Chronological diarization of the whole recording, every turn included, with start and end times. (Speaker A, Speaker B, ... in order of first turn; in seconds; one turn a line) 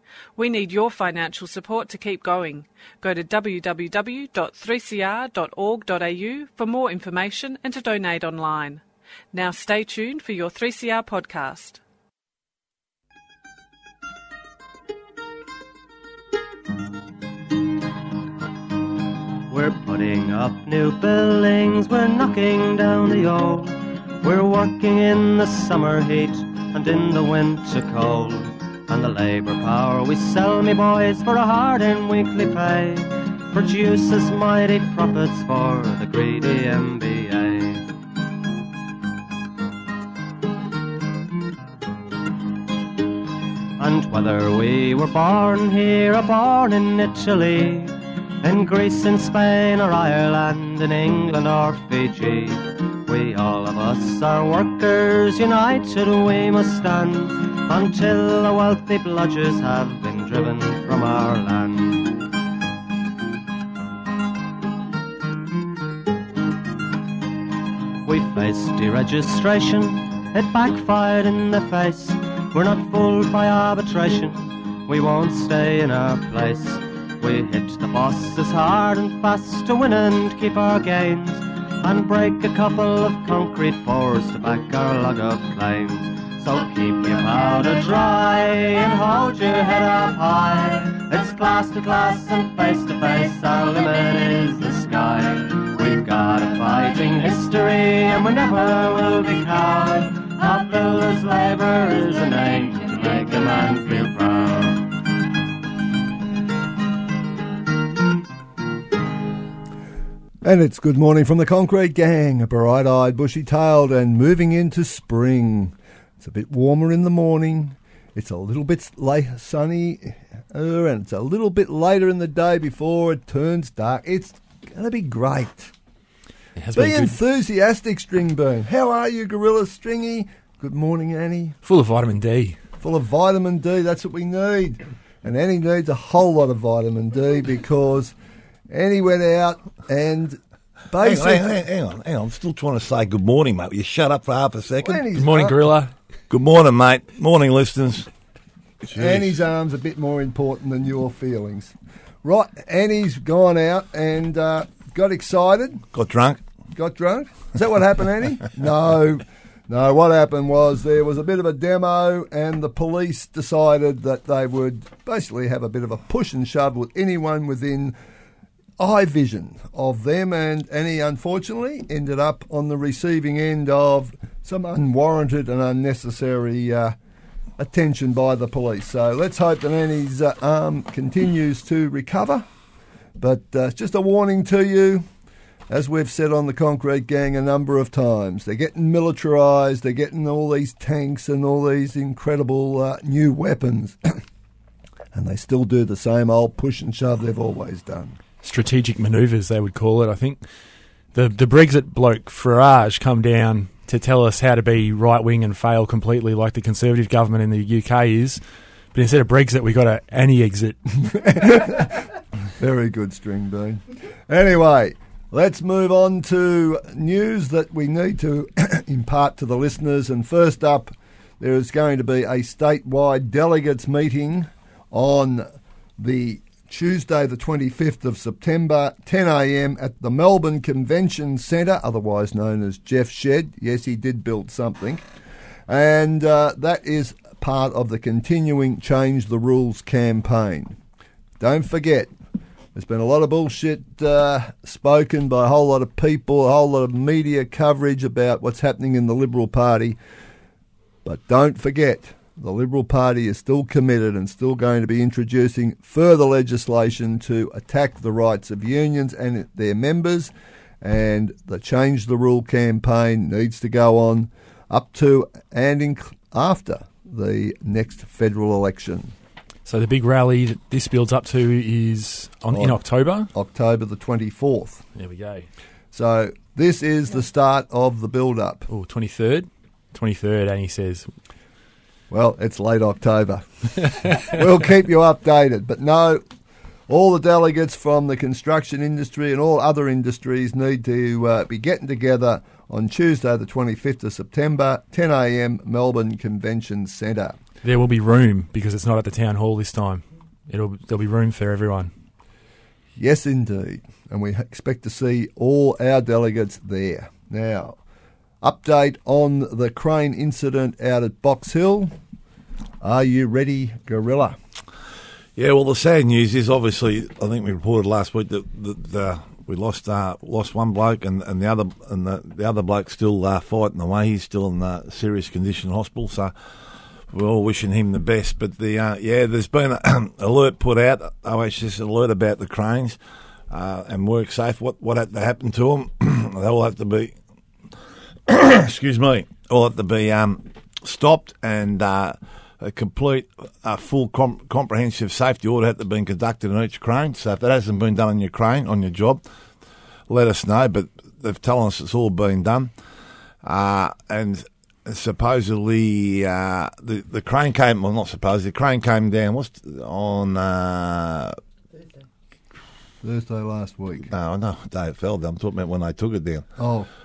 Speaker A: 0.4-11.8
Speaker B: 19.5-37.9
Speaker B: 43.8-62.2
Speaker B: 68.0-105.0
Speaker C: 110.4-125.7
Speaker D: 126.6-127.2
Speaker C: 126.8-131.6
Speaker D: 131.6-132.6
Speaker C: 132.8-138.1
Speaker C: 138.7-140.4
Speaker C: 140.9-141.5
Speaker E: 141.0-145.0
Speaker C: 144.8-145.6
Speaker D: 145.1-145.9
Speaker E: 146.3-148.1
Speaker E: 148.9-149.3
Speaker C: 148.9-155.9
Speaker E: 155.9-156.4
Speaker C: 156.8-167.9
Speaker C: 168.8-177.0
Speaker C: 177.6-182.4
Speaker C: 183.2-185.1
Speaker C: 185.7-194.2
Speaker C: 195.1-198.2
Speaker D: 198.4-200.4
Speaker D: 201.1-208.4
Speaker D: 208.9-210.8
Speaker C: 211.1-212.1
Speaker C: 212.6-225.5
Speaker C: 226.0-235.0
Speaker C: 235.7-240.8
Speaker C: 241.4-242.1
Speaker C: 242.8-250.0
Speaker C: 251.1-260.3
Speaker C: 260.8-269.1
Speaker D: 269.6-273.3
Speaker C: 273.3-274.9
Speaker D: 275.0-275.5
Speaker C: 275.9-278.7
Speaker D: 278.7-281.1
Speaker C: 282.1-286.2
Speaker C: 286.9-297.4
Speaker D: 297.6-301.9
Speaker C: 303.0-307.8
Speaker C: 308.4-311.9
Speaker C: 312.8-314.4
Speaker E: 315.4-326.3
Speaker E: 327.1-333.0
Speaker E: 333.5-337.1
Speaker E: 338.3-349.2
Speaker E: 350.1-352.7
Speaker E: 353.4-361.4
Speaker C: 363.0-364.1
Speaker E: 364.1-366.5
Speaker C: 366.6-366.9